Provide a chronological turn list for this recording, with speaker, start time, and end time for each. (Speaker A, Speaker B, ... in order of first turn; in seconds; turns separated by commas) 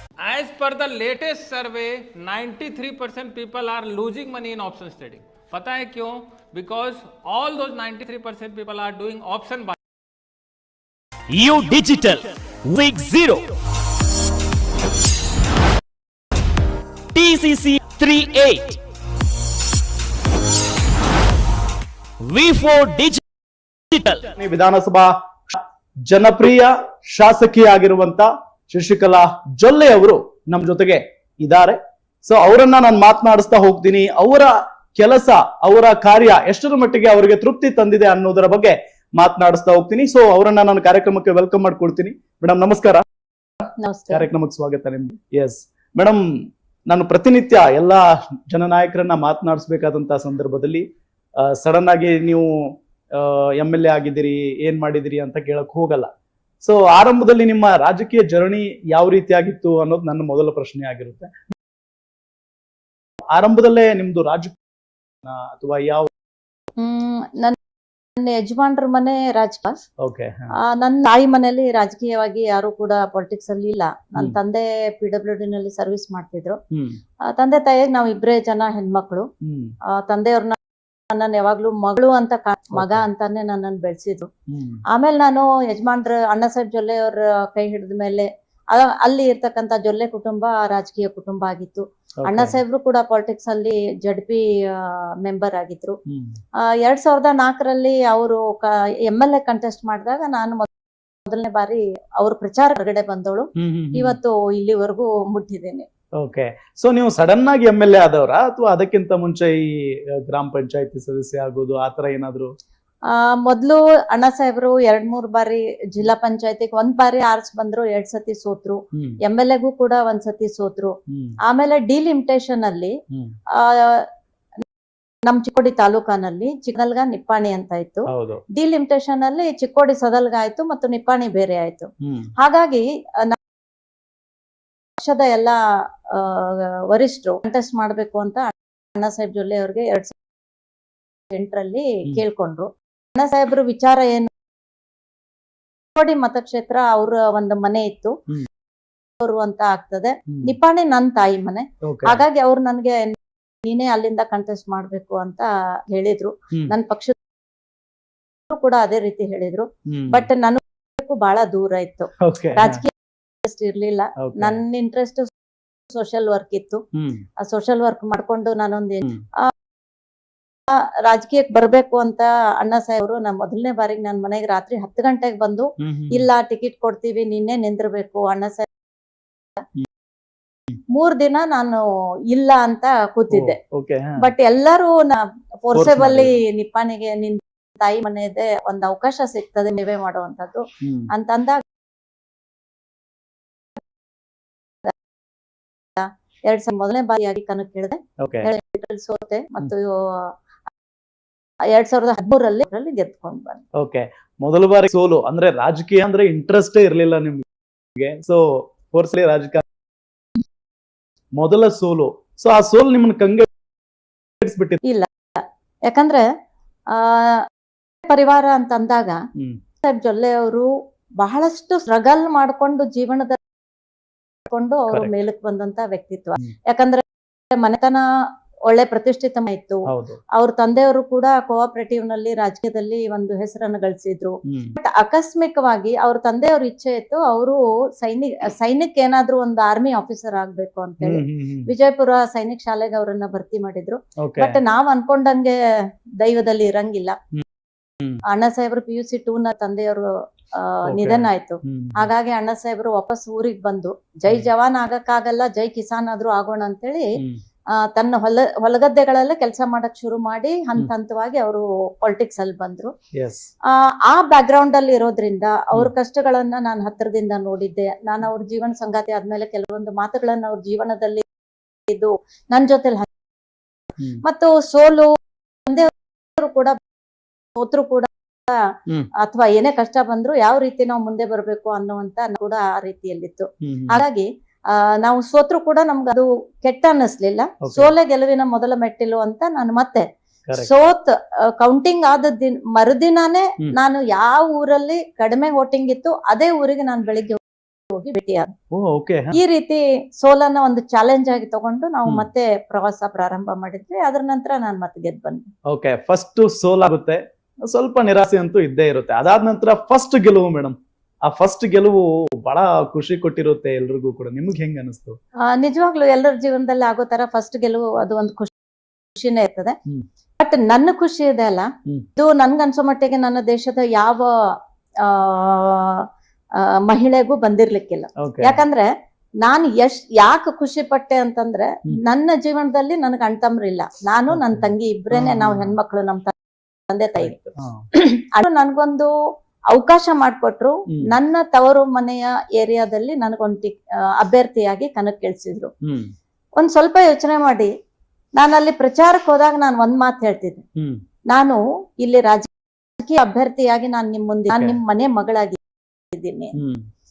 Speaker A: 0.2-9.8, Speaker B: 11.3-13.4, Speaker B: 17.1-18.8, Speaker B: 22.2-23.2, Speaker B: 23.9-24.3, Speaker C: 24.4-43.0, Speaker D: 43.8-44.3, Speaker C: 44.1-50.9, Speaker C: 51.4-56.1, Speaker C: 56.6-61.4, Speaker C: 63.3-64.6, Speaker C: 65.2-66.1, Speaker D: 66.8-67.6, Speaker D: 68.2-69.8, Speaker C: 70.0-70.5, Speaker D: 70.6-76.6, Speaker C: 76.7-77.0, Speaker D: 77.3-79.3, Speaker C: 79.4-79.8, Speaker D: 79.9-80.6, Speaker D: 81.1-84.3, Speaker C: 82.8-83.0, Speaker C: 84.5-84.8, Speaker D: 84.9-96.0, Speaker C: 92.3-92.6, Speaker C: 96.1-96.4, Speaker D: 96.6-100.7, Speaker D: 101.3-105.9, Speaker C: 103.6-104.2, Speaker C: 106.2-112.5, Speaker D: 113.1-122.9, Speaker C: 121.1-121.4, Speaker D: 123.5-124.1, Speaker D: 125.3-133.4, Speaker C: 128.1-128.4, Speaker C: 132.0-132.3, Speaker D: 135.0-135.6, Speaker D: 136.1-140.1, Speaker D: 141.3-144.3, Speaker D: 146.0-148.2, Speaker D: 149.2-157.2, Speaker C: 151.8-152.2, Speaker D: 158.5-162.9, Speaker C: 159.9-160.3, Speaker C: 162.2-162.8, Speaker D: 163.4-165.3, Speaker C: 164.2-164.6, Speaker D: 165.9-166.8, Speaker C: 167.0-167.2, Speaker D: 167.4-169.5, Speaker D: 171.1-178.7, Speaker C: 175.8-176.2, Speaker D: 180.9-183.6, Speaker C: 183.3-184.2, Speaker D: 184.2-191.6, Speaker C: 185.7-186.3, Speaker C: 190.8-191.1, Speaker D: 196.0-200.3, Speaker C: 198.2-198.5, Speaker D: 201.7-203.6, Speaker C: 203.8-207.4, Speaker C: 208.0-209.6, Speaker C: 211.4-213.5, Speaker C: 214.4-214.8, Speaker D: 214.8-216.2, Speaker D: 216.9-217.4, Speaker D: 218.1-219.2, Speaker D: 219.8-223.4, Speaker D: 224.5-228.0, Speaker D: 228.7-245.6, Speaker C: 229.9-230.2, Speaker C: 234.5-234.8, Speaker C: 241.0-241.7, Speaker C: 244.2-244.6, Speaker D: 246.2-247.2, Speaker D: 248.3-257.1, Speaker C: 250.9-252.1, Speaker D: 257.7-262.9, Speaker C: 263.2-263.5, Speaker D: 263.7-271.2, Speaker D: 271.9-273.1, Speaker D: 274.2-275.1, Speaker D: 275.7-276.8, Speaker D: 277.6-278.6, Speaker D: 279.2-290.1, Speaker C: 283.6-284.0, Speaker C: 287.6-287.9, Speaker D: 290.6-297.4, Speaker D: 297.9-298.5, Speaker C: 298.7-299.4, Speaker D: 299.4-305.5, Speaker C: 305.7-315.2, Speaker D: 315.4-318.5, Speaker D: 319.1-319.8, Speaker D: 320.4-324.3, Speaker D: 325.0-326.1, Speaker D: 326.6-328.9, Speaker C: 328.2-328.6, Speaker D: 329.4-336.3, Speaker C: 334.3-335.7, Speaker D: 336.9-337.4, Speaker C: 337.2-337.8, Speaker D: 337.9-339.1, Speaker D: 339.7-345.7, Speaker C: 345.8-346.1, Speaker D: 346.6-347.7, Speaker D: 348.4-350.6, Speaker C: 350.8-351.0, Speaker D: 351.3-352.5, Speaker D: 353.0-355.6, Speaker C: 354.5-354.8, Speaker D: 356.1-356.6, Speaker C: 356.6-356.9